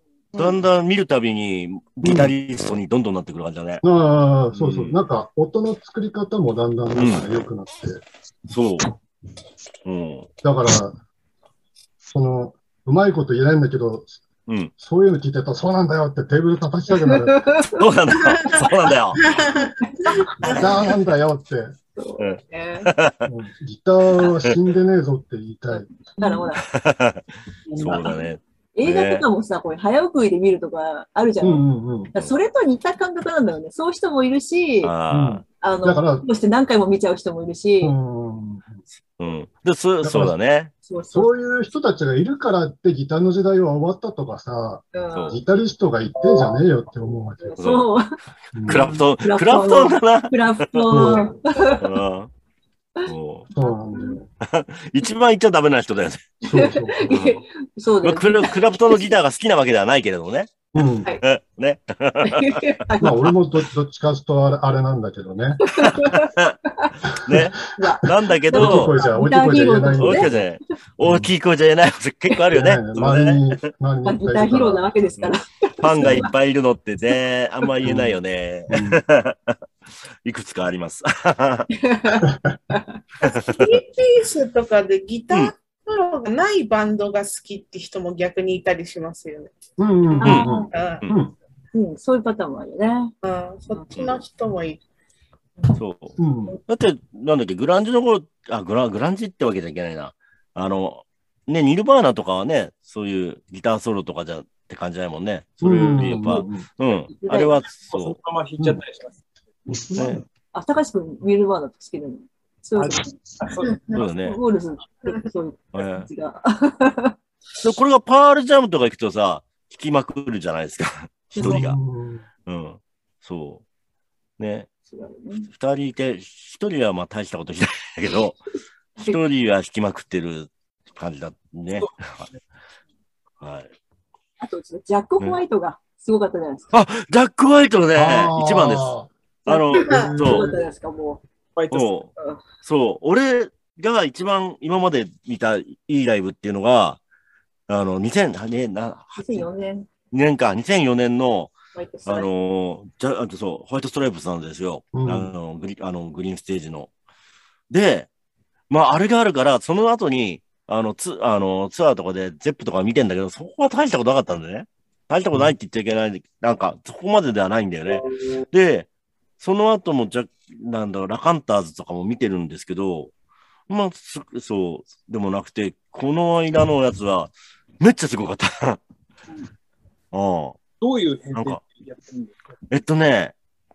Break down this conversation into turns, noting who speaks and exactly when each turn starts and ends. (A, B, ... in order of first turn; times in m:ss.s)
0:00.4-0:03.8 A
0:02.0-0:02.3 B
0:03.8-0:08.0 B
0:04.5-0:05.0 A
0:06.9-0:07.5 A
0:08.5-0:08.9 A
0:09.8-0:10.3 A
0:10.4-0:11.0 B
0:12.1-0:14.2 B
0:14.5-0:14.7 A
0:14.8-0:17.4 B
0:17.3-0:18.8 C
0:17.7-0:19.2 A
0:19.3-0:20.6 D
0:19.5-0:20.7 C
0:20.4-0:21.8 B
0:22.0-0:22.9 C
0:22.2-0:23.3 A
0:23.3-0:25.9 B
0:25.7-0:26.6 C
0:26.6-0:27.2 A
0:27.7-0:28.2 C
0:27.8-0:29.3 A
0:28.7-0:31.6 C
0:31.4-0:32.1 B
0:32.1-0:34.9 C
0:34.8-0:35.4 A
0:35.1-0:36.3 B
0:35.6-0:38.0 C
0:37.8-0:38.8 B
0:39.2-0:40.7 A
0:40.0-0:40.4 B
0:40.8-0:41.3 C
0:41.1-0:47.6 B
0:44.9-0:45.4 C
0:45.1-0:45.4 A
0:47.4-0:48.0 C
0:47.5-0:47.9 A
0:48.5-0:49.1 B
0:48.6-0:51.2 A
0:49.2-0:51.9 C
0:50.9-0:51.3 B
0:51.8-0:52.3 A
0:53.0-0:54.2 C
0:53.1-0:53.5 A
0:53.5-0:54.3 B
0:54.4-0:56.4 A
0:56.4-0:59.1 C
0:56.4-0:57.2 B
0:57.1-0:57.4 A
0:58.0-1:02.7 A
1:00.8-1:01.1 B
1:02.3-1:03.2 C
1:03.0-1:05.6 B
1:05.7-1:06.3 C
1:05.8-1:09.0 A
1:07.3-1:08.0 B
1:07.8-1:10.3 C
1:08.5-1:10.4 B
1:09.9-1:13.6 A
1:11.0-1:11.3 B
1:12.5-1:14.9 B
1:14.0-1:16.3 C
1:15.2-1:19.6 A
1:16.0-1:16.3 B
1:17.8-1:18.2 B
1:18.7-1:19.0 B
1:20.2-1:21.7 A
1:21.8-1:23.4 C
1:22.2-1:22.6 B
1:23.2-1:23.7 A
1:23.5-1:29.5 D
1:29.8-1:31.3 B
1:30.2-1:30.7 C
1:30.2-1:31.1 A
1:30.7-1:31.1 D
1:31.7-1:33.1 C
1:33.2-1:34.8 D
1:33.9-1:34.3 A
1:35.7-1:48.2 A
1:36.2-1:36.6 B
1:45.6-1:46.7 B
1:47.1-1:47.6 C
1:47.8-1:49.6 E
1:49.7-1:50.2 B
1:50.0-1:50.2 A
1:50.5-1:53.1 C
1:52.8-1:53.9 E
1:53.9-1:54.4 A
1:54.0-1:57.1 C
1:55.7-1:56.1 A
1:57.6-2:01.8 A
2:01.4-2:01.7 C
2:01.4-2:02.3 B
2:02.5-2:03.6 A
2:04.4-2:04.7 A
2:04.9-2:05.5 C
2:05.5-2:08.4 A
2:09.0-2:12.2 A
2:11.8-2:12.4 E
2:13.4-2:13.7 A
2:14.4-2:16.7 C
2:16.7-2:18.9 A
2:18.0-2:19.1 B
2:19.5-2:20.5 A
2:19.5-2:21.2 C
2:19.8-2:20.2 D
2:19.8-2:20.6 B
2:21.6-2:22.0 E
2:21.7-2:27.0 A
2:22.2-2:22.4 C
2:27.7-2:29.5 A
2:29.2-2:29.9 C
2:30.1-2:31.6 A
2:31.7-2:32.3 C
2:32.1-2:36.9 A
2:34.9-2:35.3 B
2:37.7-2:38.1 A
2:38.7-2:48.9 A
2:49.4-2:53.1 A
2:53.7-2:58.8 A
3:00.1-3:00.6 A
3:00.8-3:02.4 E
3:01.3-3:01.6 A
3:02.7-3:03.4 A